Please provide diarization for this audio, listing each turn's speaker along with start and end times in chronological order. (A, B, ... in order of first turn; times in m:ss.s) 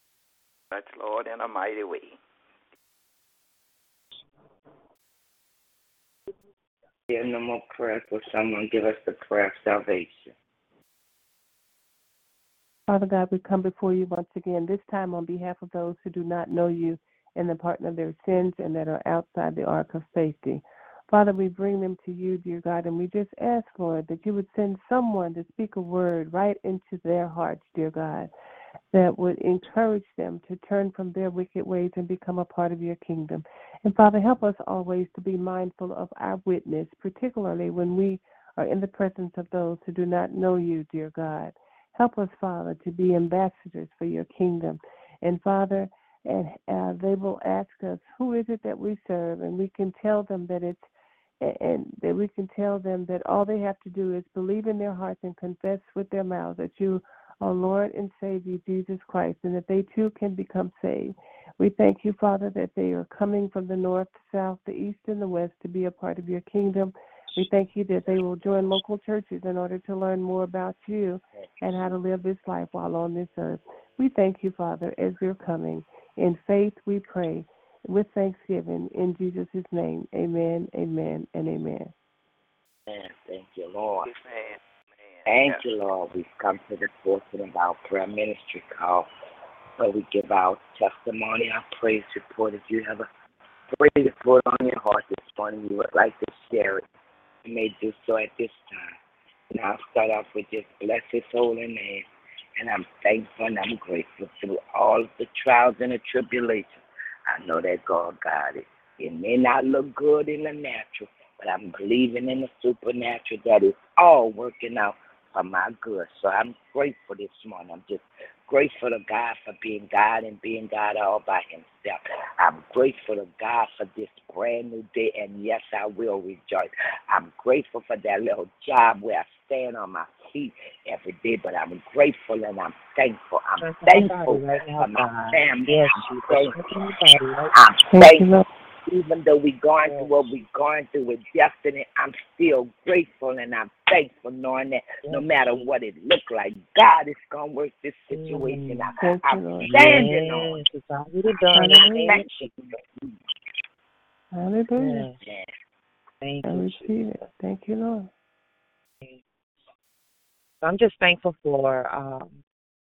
0:00.7-0:02.2 A
0:07.1-0:10.3 B
0:12.9-0:28.3 C
0:28.9-0:50.8 C
0:51.4-1:21.9 C
1:22.9-1:24.1 B
1:24.0-1:25.6 A
1:25.3-1:29.1 B
1:29.8-1:33.1 B
1:33.7-1:36.8 B
1:37.4-1:38.9 B
1:39.5-1:42.1 B
1:42.6-2:16.9 B
2:13.6-2:17.6 D
2:17.5-2:18.3 B
2:17.9-2:18.4 C
2:18.9-2:30.6 B
2:19.8-2:20.1 D
2:28.1-2:29.0 D
2:29.0-2:29.7 C
2:29.6-2:32.8 D
2:31.5-2:32.2 C
2:34.3-2:35.1 C
2:34.8-2:35.2 D
2:35.2-2:35.5 B
2:36.2-2:36.9 D
2:36.4-2:38.1 C
2:40.6-2:42.4 D